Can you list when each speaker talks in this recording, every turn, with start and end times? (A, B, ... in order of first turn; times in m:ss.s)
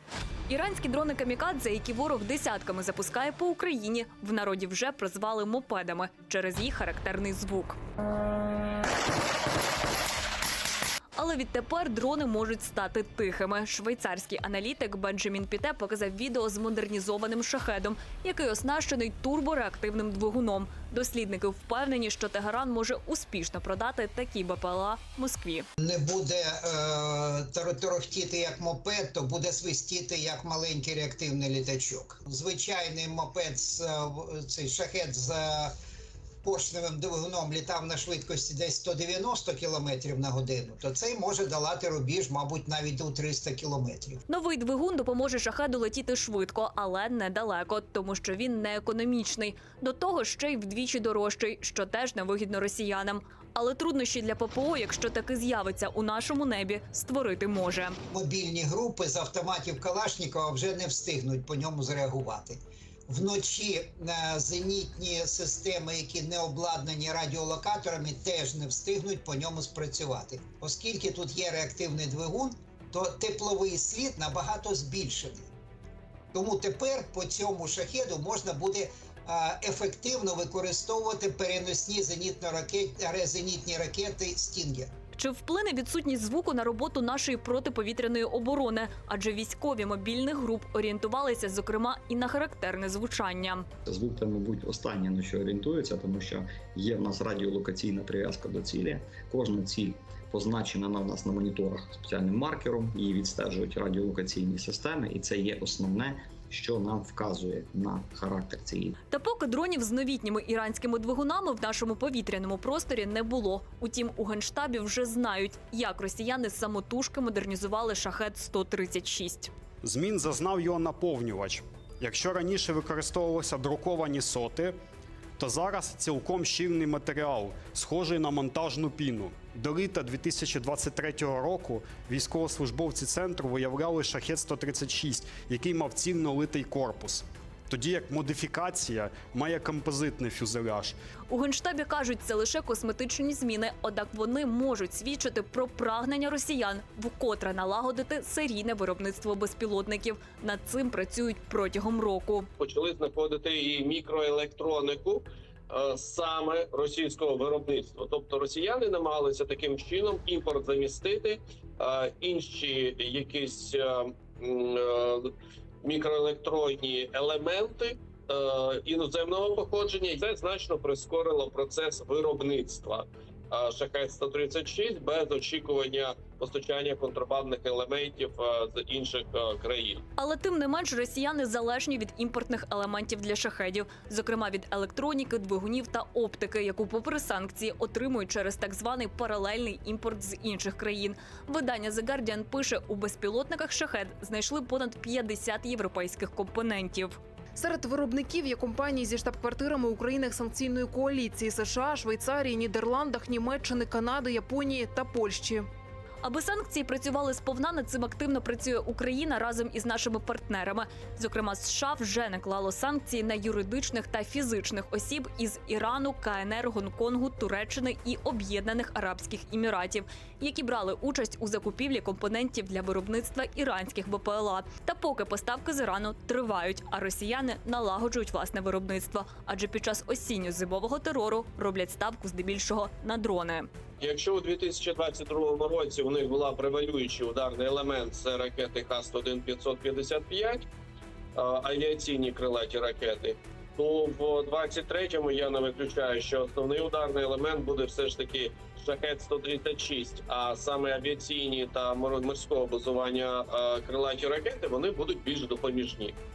0:00.5-0:07.8 A
0:11.2-0:25.7 A
0:25.8-0:35.7 B
0:36.4-0:44.2 B
0:44.3-0:58.0 A
0:58.1-1:15.5 B
1:16.3-1:24.9 B
1:25.2-1:33.7 A
1:33.9-1:49.0 C
1:49.1-1:59.5 A
1:59.8-2:04.7 D
2:05.4-2:21.0 D
2:21.3-2:32.5 A
2:32.6-2:45.3 E
2:45.8-3:00.0 E
3:00.2-3:17.2 A
3:17.6-3:25.7 F
3:26.2-3:53.7 A
3:54.0-4:00.7 E
4:01.4-4:16.2 E